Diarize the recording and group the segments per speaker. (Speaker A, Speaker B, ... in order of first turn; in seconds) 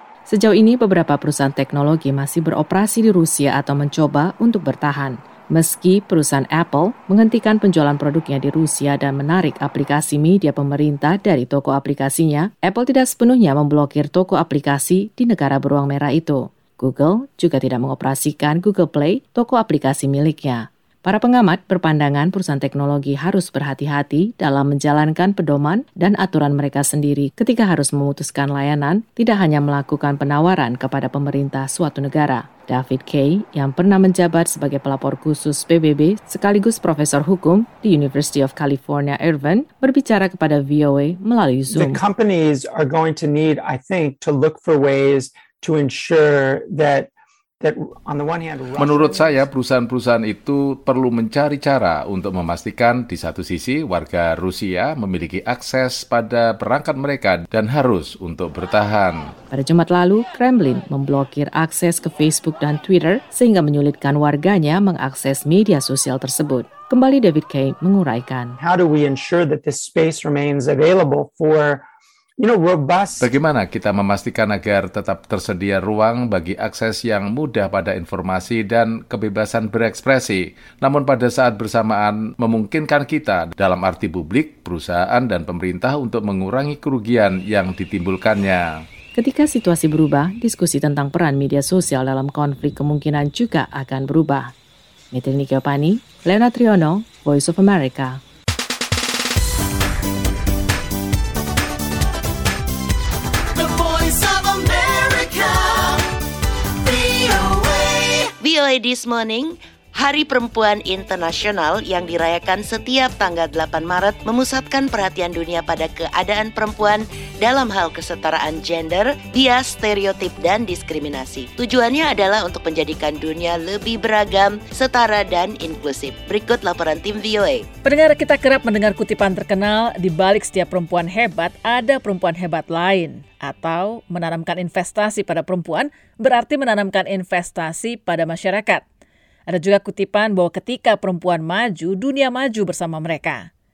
Speaker A: 0.3-42.0, 59.5-68.6, 89.1-94.5, 95.1-98.2
Speaker B: 41.7-49.4, 68.6-71.8, 72.4-73.3
Speaker C: 48.8-59.3, 73.2-88.8
Speaker D: 108.4-127.7
Speaker E: 127.8-138.8, 139.5-143.5